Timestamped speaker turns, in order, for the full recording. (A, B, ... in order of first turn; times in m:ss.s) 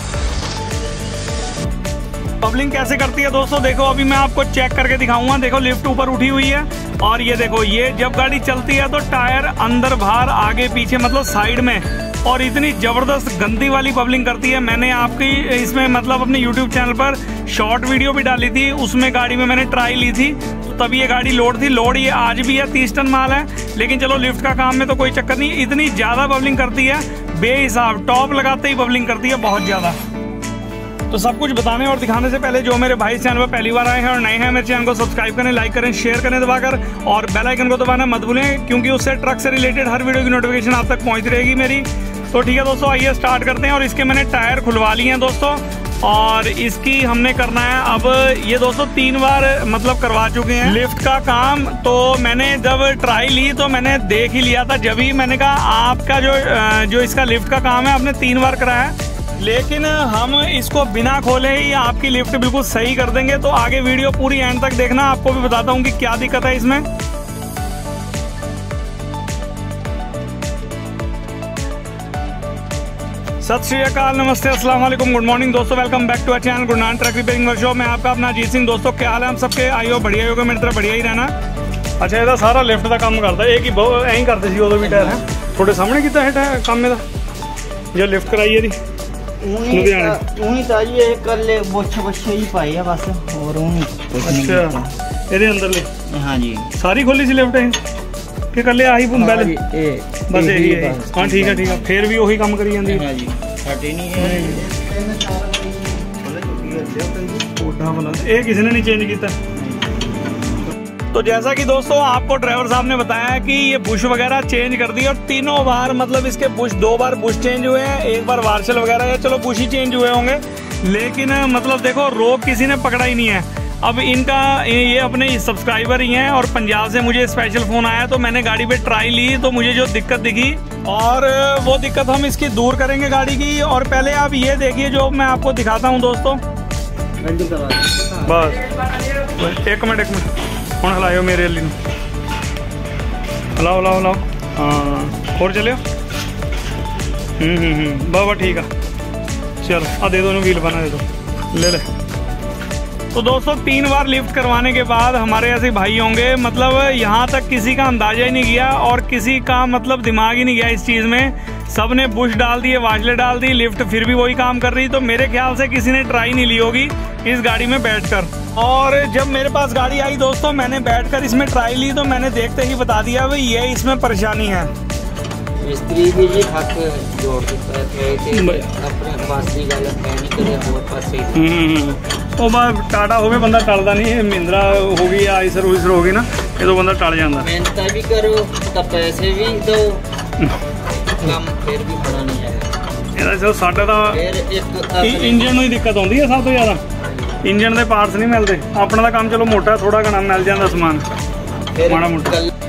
0:02.4-0:30.0 A
0:31.1-1:06.9 A
1:13.4-1:21.3 A
1:22.0-1:27.0 A
1:24.9-1:25.2 B
1:27.9-1:28.8 A
1:29.4-1:34.9 B
1:29.7-1:30.2 A
1:34.2-1:35.9 A
1:36.1-1:36.7 B
1:36.7-1:37.8 A
1:38.5-1:39.5 A
1:39.1-1:41.9 B
1:40.3-1:43.0 A
1:42.8-1:47.5 B
1:44.2-1:44.6 A
1:47.5-1:49.4 A
1:49.7-1:50.1 B
1:51.1-2:16.4 A
2:17.2-2:18.3 B
2:18.2-2:20.3 A
2:20.8-2:21.8 A
2:23.6-2:25.8 A
2:27.4-2:28.7 A
2:29.6-2:31.9 A
2:33.1-2:54.7 A
2:55.6-3:01.5 B
2:58.3-2:58.7 A
3:01.3-3:07.5 A
3:07.4-3:10.0 B
3:11.2-3:12.7 B
3:13.1-3:14.2 A
3:14.1-3:15.6 B
3:15.0-3:16.8 A
3:17.4-3:21.0 A
3:21.8-3:22.5 B
3:21.8-3:22.4 A